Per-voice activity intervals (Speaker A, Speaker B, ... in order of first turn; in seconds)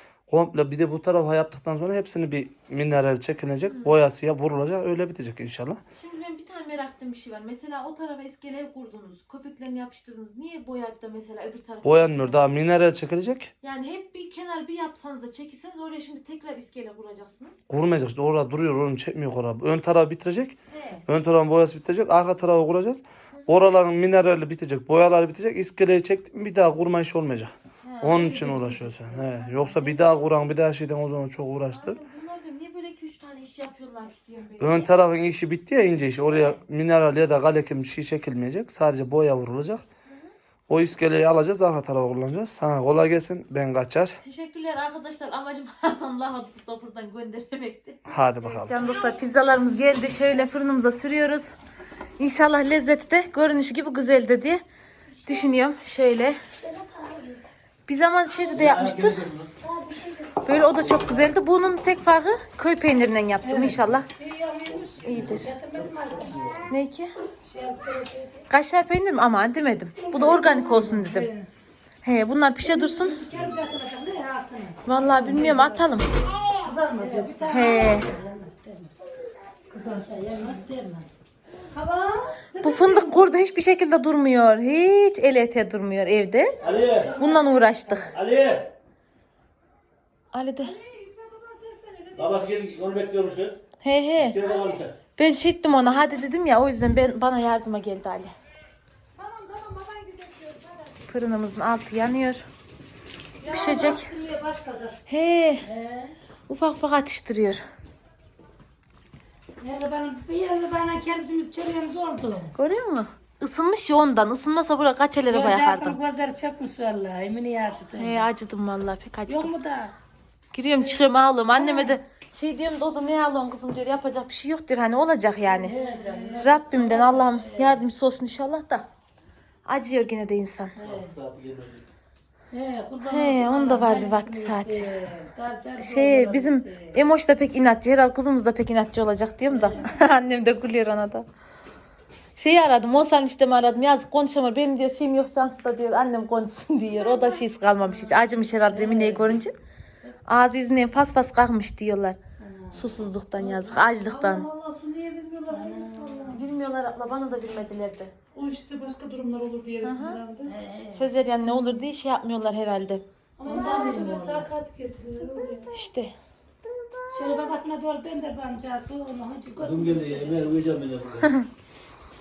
Speaker A: 0.3-5.8, 11.8-13.5, 17.7-20.6, 21.1-32.0, 34.6-39.8, 40.7-44.2, 48.1-48.8
Speaker B: 3.7-4.0, 6.0-12.6, 13.6-17.6, 20.7-21.0, 23.3-23.6, 27.8-30.3, 31.7-34.9, 44.2-51.5, 52.2-54.6, 55.2-56.4, 57.9-59.3, 60.4-64.1, 65.0-65.5, 66.7-67.1, 68.5-71.3, 72.0-73.2, 74.8-76.1, 77.5-78.1, 82.6-86.5, 87.2-88.1, 90.3-90.8, 93.8-94.4, 95.2-98.3, 101.1-102.5, 103.5-104.1, 105.1-105.7, 106.5-107.7, 112.6-116.0, 118.0-119.5, 120.5-125.7, 126.3-128.9, 129.7-130.8, 133.0-134.9, 135.8-141.3, 142.4-149.5, 150.3-152.2, 152.7-154.5, 156.3-158.1, 159.8-160.2, 160.9-163.0, 165.7-166.1
Speaker C: 56.6-57.4, 59.9-60.2, 64.1-66.5, 67.4-68.5, 70.1-71.1, 72.6-75.9, 76.6-78.9, 79.7-81.1, 86.7-88.1, 99.2-100.8, 105.6-106.1, 109.6-112.5, 115.3-118.3, 119.3-120.0, 121.5-122.0, 125.5-127.8, 130.8-131.1, 132.5-137.0, 139.5-139.9, 147.9-149.4, 152.4-153.0, 155.5-156.4, 160.4-161.1, 163.4-164.5, 167.1-170.4
Speaker D: 58.5-59.5, 65.8-66.6, 86.6-87.1, 88.1-88.7, 92.2-93.6, 94.2-95.0, 130.8-131.8, 169.6-171.3
Speaker E: 63.4-63.8, 70.2-71.5, 76.7-77.7, 79.7-80.5, 81.7-83.2, 90.9-92.4, 99.4-100.5, 103.4-105.0, 125.9-126.5, 153.4-156.3, 158.3-160.5, 163.4-165.7